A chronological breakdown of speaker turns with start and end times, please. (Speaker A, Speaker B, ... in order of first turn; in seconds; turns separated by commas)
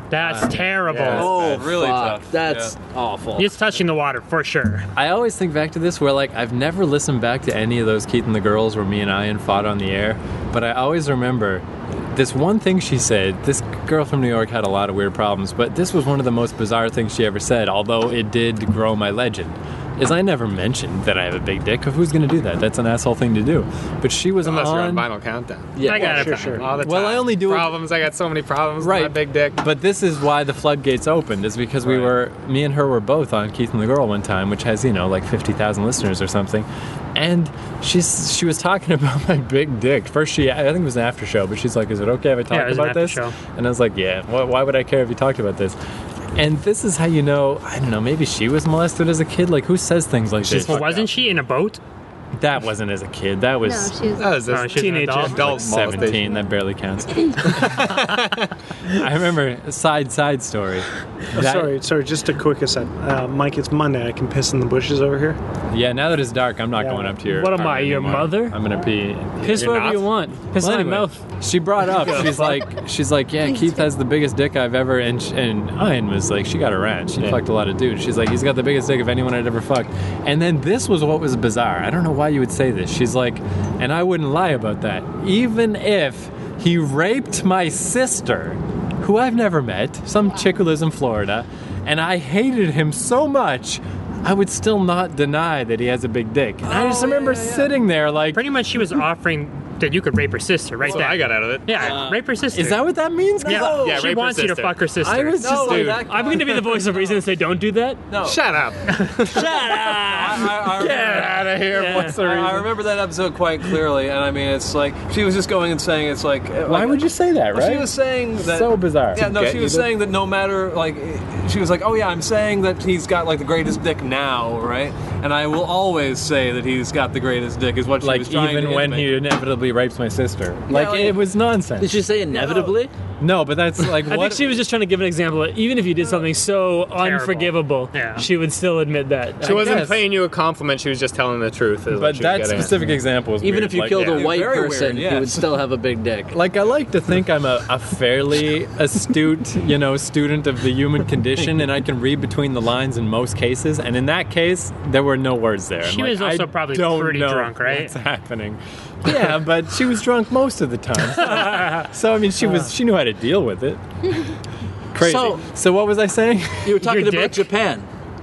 Speaker A: 0.1-1.5, Speaker B: 0.2-1.7, Speaker C: 0.9-2.8, Speaker D: 1.1-3.5, Speaker A: 3.4-4.9, Speaker B: 4.9-25.1, Speaker E: 24.4-29.6, Speaker D: 25.8-26.2, Speaker A: 25.8-26.6, Speaker F: 25.9-26.7, Speaker B: 26.8-27.8, Speaker B: 28.8-45.8, Speaker A: 42.5-43.3, Speaker B: 46.4-50.9, Speaker E: 50.4-51.1, Speaker A: 50.5-51.8, Speaker B: 52.4-54.0, Speaker E: 54.2-56.3, Speaker A: 54.4-55.5, Speaker G: 54.7-55.4, Speaker B: 55.4-57.9, Speaker E: 57.4-58.5, Speaker B: 58.9-61.8, Speaker F: 61.3-65.4, Speaker B: 65.7-69.6, Speaker F: 66.8-67.2, Speaker G: 67.2-68.6, Speaker G: 69.4-71.2, Speaker E: 69.5-70.2, Speaker B: 70.6-98.5, Speaker G: 72.0-72.6, Speaker D: 96.7-97.6, Speaker C: 96.9-97.4, Speaker A: 98.3-102.8, Speaker E: 100.8-102.0, Speaker D: 101.7-102.2, Speaker B: 102.5-103.7, Speaker D: 103.4-104.1, Speaker A: 103.5-105.5, Speaker E: 103.6-104.8, Speaker B: 105.0-105.8, Speaker C: 105.4-107.2, Speaker E: 105.5-106.1, Speaker G: 105.7-108.0, Speaker C: 108.1-108.4, Speaker E: 108.2-109.5, Speaker G: 109.3-112.2, Speaker C: 109.4-129.2, Speaker E: 110.8-112.0, Speaker B: 111.8-112.7, Speaker B: 116.7-119.3, Speaker E: 119.2-119.9, Speaker B: 128.0-132.0, Speaker D: 130.7-131.2, Speaker D: 131.8-132.9, Speaker B: 133.2-134.5, Speaker G: 134.1-139.9, Speaker A: 136.9-138.2, Speaker E: 139.4-142.8, Speaker B: 139.4-140.0, Speaker B: 141.9-144.1, Speaker D: 143.4-146.4, Speaker E: 143.9-144.3, Speaker C: 144.2-145.5, Speaker B: 146.3-163.8, Speaker A: 155.8-157.9, Speaker B: 164.9-166.9, Speaker D: 165.0-165.4, Speaker D: 166.6-167.9, Speaker A: 166.8-167.4